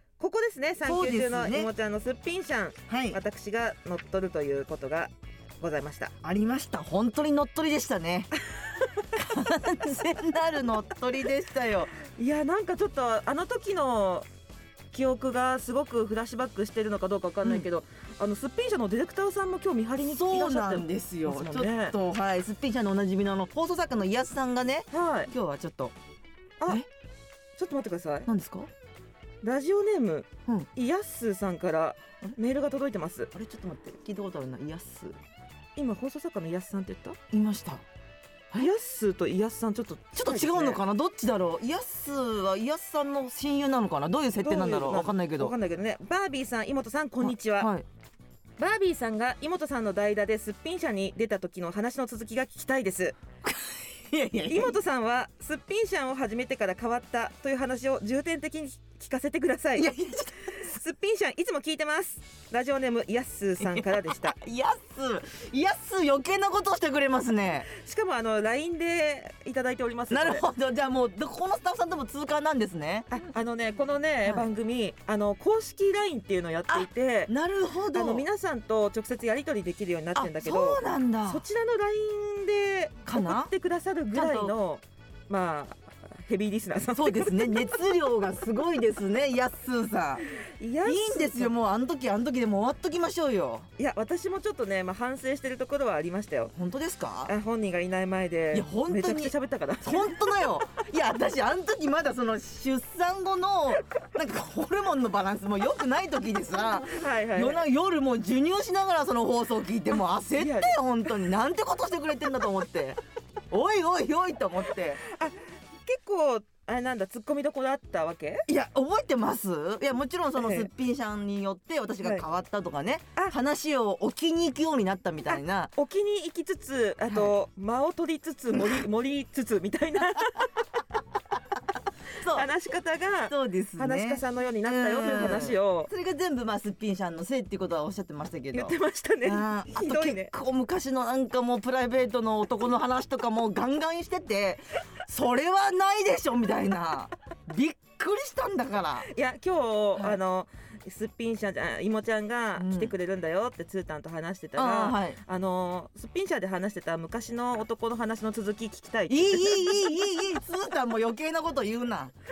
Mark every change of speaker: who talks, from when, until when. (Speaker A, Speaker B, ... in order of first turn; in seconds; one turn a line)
Speaker A: 0.2-6.1
Speaker B: 0.8-1.7
Speaker B: 2.9-3.2
Speaker B: 6.2-8.3
Speaker A: 8.5-9.0
Speaker B: 9.1-11.9
Speaker A: 12.1-14.3
Speaker A: 14.9-22.0
Speaker B: 20.0-25.9
Speaker A: 24.9-25.3
Speaker A: 27.6-28.3
Speaker B: 28.3-28.7
Speaker A: 29.4-33.3
Speaker B: 33.3-35.2
Speaker A: 35.8-37.2
Speaker B: 37.3-37.8
Speaker A: 38.5-40.8
Speaker B: 40.1-45.5
Speaker A: 44.4-47.7
Speaker B: 47.2-47.8
Speaker A: 48.6-53.2
Speaker B: 53.4-54.8
Speaker A: 54.5-59.9
Speaker B: 59.8-60.6
Speaker A: 60.4-64.4
Speaker B: 63.6-67.7
Speaker A: 67.7-70.5
Speaker B: 70.1-73.1
Speaker A: 73.1-77.3
Speaker B: 76.7-78.2
Speaker A: 77.9-87.8
Speaker B: 80.1-81.4
Speaker B: 83.0-83.5
Speaker B: 84.1-84.5
Speaker B: 86.9-93.7
Speaker A: 90.6-91.5
Speaker A: 93.8-96.5
Speaker B: 96.5-97.3
Speaker A: 97.2-100.2
Speaker B: 98.5-113.0
Speaker A: 106.8-107.6
Speaker A: 110.3-110.8
Speaker B: 113.5-115.0
Speaker A: 115.0-118.5
Speaker B: 118.5-125.7
Speaker A: 120.3-120.7
Speaker A: 122.0-122.2
Speaker A: 125.7-130.6
Speaker B: 127.1-127.3
Speaker A: 132.2-135.9
Speaker B: 132.2-132.5
Speaker B: 133.2-149.1
Speaker A: 138.5-140.3
Speaker A: 149.0-160.0
Speaker B: 152.6-152.9
Speaker B: 154.6-155.2
Speaker B: 159.1-162.1